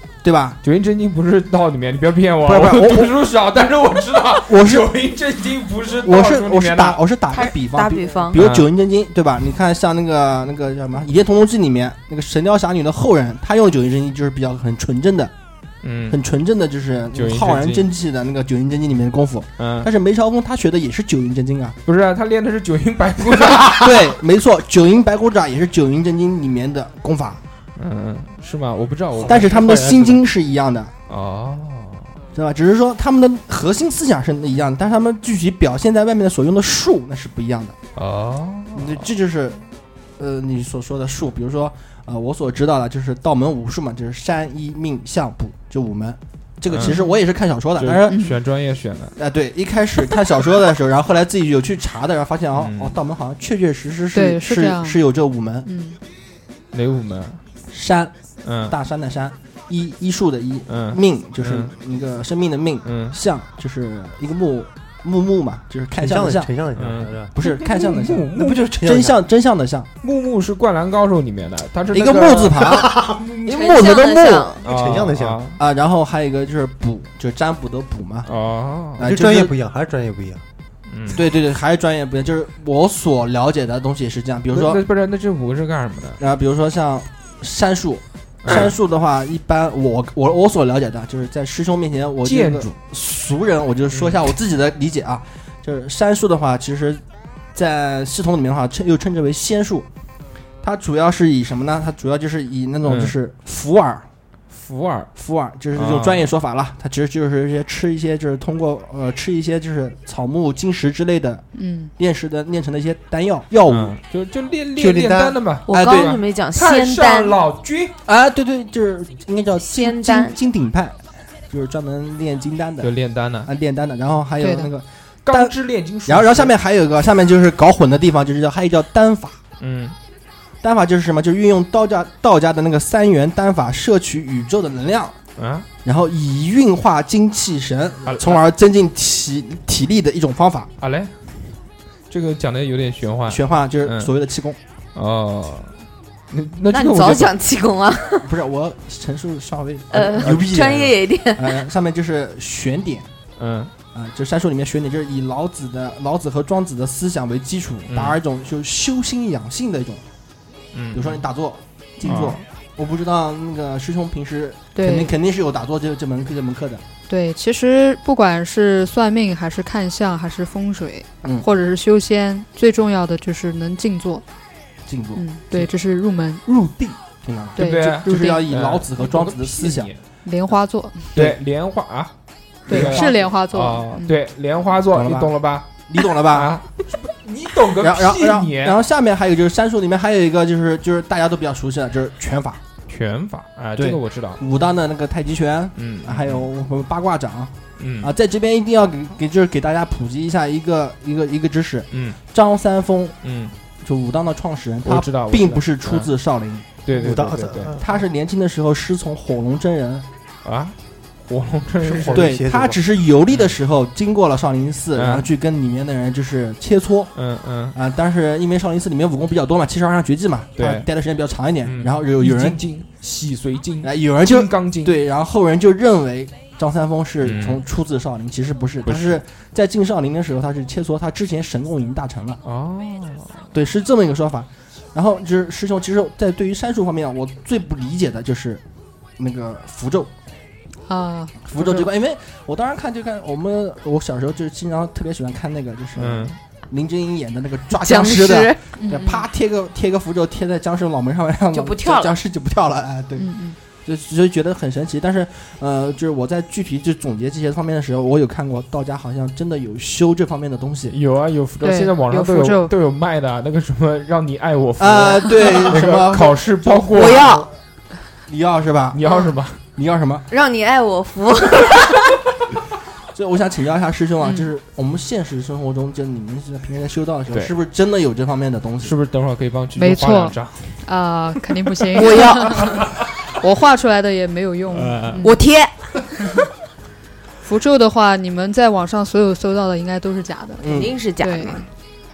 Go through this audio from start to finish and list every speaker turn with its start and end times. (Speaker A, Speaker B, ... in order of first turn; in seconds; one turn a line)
Speaker A: 0.2-0.6
Speaker B: 0.6-7.0
Speaker A: 2.4-3.1
Speaker A: 4.4-4.9
Speaker A: 6.0-15.3
Speaker C: 7.3-8.4
Speaker B: 8.3-8.7
Speaker B: 15.8-16.2
Speaker A: 16.1-21.8
Speaker B: 17.1-17.9
Speaker B: 19.6-19.9
Speaker B: 21.9-24.1
Speaker A: 23.6-27.4
Speaker B: 27.8-29.4
Speaker D: 29.2-30.2
Speaker A: 29.2-30.9
Speaker B: 31.1-32.1
Speaker A: 32.3-37.8
Speaker B: 38.0-39.1
Speaker A: 38.7-39.6
Speaker A: 40.2-48.2
Speaker B: 46.7-47.0
Speaker B: 47.8-49.1
Speaker E: 48.1-48.3
Speaker A: 49.2-55.7
Speaker B: 52.5-53.0
Speaker E: 54.1-55.0
Speaker E: 55.6-56.0
Speaker B: 56.7-57.4
Speaker A: 57.7-58.1
Speaker B: 58.4-58.7
Speaker A: 58.7-66.5
Speaker B: 60.7-61.7
Speaker B: 62.8-63.2
Speaker D: 66.0-67.3
Speaker B: 66.8-68.7
Speaker A: 67.3-69.9
Speaker D: 68.4-69.1
Speaker B: 70.0-72.8
Speaker A: 71.9-74.6
Speaker D: 72.8-73.2
Speaker C: 73.4-74.6
Speaker D: 74.6-75.4
Speaker B: 74.6-75.6
Speaker A: 75.6-78.3
Speaker B: 78.2-79.1
Speaker A: 79.0-79.5
Speaker D: 79.0-80.4
Speaker B: 80.9-81.2
Speaker A: 81.1-84.8
Speaker B: 84.5-86.2
Speaker A: 86.2-97.0
Speaker B: 88.4-88.7
Speaker B: 92.2-92.7
Speaker B: 93.9-94.2
Speaker A: 97.5-99.9
Speaker A: 100.6-104.1
Speaker B: 102.8-103.1
Speaker B: 104.5-105.1
Speaker A: 105.1-111.4
Speaker B: 105.7-106.3
Speaker E: 111.5-111.9
Speaker A: 112.0-114.0
Speaker B: 113.7-117.9
Speaker D: 114.8-115.4
Speaker C: 115.7-117.4
Speaker A: 115.7-116.2
Speaker A: 118.0-122.9
Speaker C: 119.6-120.3
Speaker B: 122.8-123.5
Speaker A: 123.4-125.5
Speaker E: 124.4-124.7
Speaker B: 125.2-126.5
Speaker A: 126.0-129.4
Speaker B: 129.6-129.9
Speaker A: 130.6-135.2
Speaker B: 135.4-135.7
Speaker A: 135.8-140.7
Speaker B: 138.1-138.4
Speaker B: 140.8-141.1
Speaker B: 142.1-144.1
Speaker A: 143.3-144.6
Speaker B: 144.9-145.7
Speaker B: 146.3-147.3
Speaker C: 146.7-148.3
Speaker A: 148.2-153.1
Speaker C: 149.9-151.6
Speaker B: 150.2-150.7
Speaker B: 153.4-153.7
Speaker A: 153.9-160.0
Speaker B: 157.9-158.2
Speaker B: 160.7-161.2
Speaker A: 160.9-166.8
Speaker B: 162.0-162.4
Speaker E: 164.7-165.1
Speaker E: 167.1-174.2
Speaker A: 174.9-175.2
Speaker E: 175.2-176.4
Speaker B: 176.4-177.0
Speaker A: 177.2-179.9
Speaker E: 177.6-178.4
Speaker B: 177.6-180.0
Speaker E: 180.2-181.1
Speaker B: 181.1-182.1
Speaker A: 182.7-183.2
Speaker B: 182.7-188.8
Speaker E: 182.7-184.1
Speaker A: 184.9-185.3
Speaker A: 185.9-186.6
Speaker A: 187.8-192.6
Speaker B: 192.9-194.4
Speaker A: 193.8-203.2
Speaker B: 195.8-196.4
Speaker B: 197.8-198.1
Speaker B: 201.9-202.2
Speaker B: 203.2-203.5
Speaker A: 203.8-206.7
Speaker B: 204.8-206.1
Speaker B: 206.8-207.8
Speaker D: 206.9-207.8
Speaker A: 207.8-210.1
Speaker B: 210.4-210.7
Speaker B: 211.3-212.3
Speaker D: 211.8-212.8
Speaker A: 212.1-217.1
Speaker B: 214.9-215.2
Speaker B: 217.2-217.8
Speaker A: 217.7-222.6
Speaker B: 220.6-220.9
Speaker B: 221.6-225.0
Speaker A: 223.8-232.4
Speaker B: 227.2-227.6
Speaker B: 228.8-229.2
Speaker B: 232.4-233.5
Speaker A: 233.5-238.6
Speaker A: 239.2-240.1
Speaker E: 240.9-241.9
Speaker A: 241.4-253.3
Speaker B: 245.9-246.4
Speaker C: 247.7-248.6
Speaker E: 248.8-249.2
Speaker C: 251.5-252.1
Speaker E: 253.2-253.6
Speaker A: 253.8-261.0
Speaker B: 260.9-267.3
Speaker E: 261.6-262.7
Speaker A: 264.8-267.5
Speaker C: 266.9-267.5
Speaker A: 268.3-269.0
Speaker B: 268.9-269.6
Speaker A: 269.8-270.3
Speaker C: 270.3-272.2
Speaker A: 273.1-278.9
Speaker B: 278.8-280.8
Speaker E: 279.8-282.8
Speaker C: 281.9-282.8
Speaker E: 283.4-285.3
Speaker B: 284.7-285.3
Speaker C: 285.2-285.7
Speaker E: 287.4-291.6
Speaker A: 290.6-291.0
Speaker C: 290.6-291.7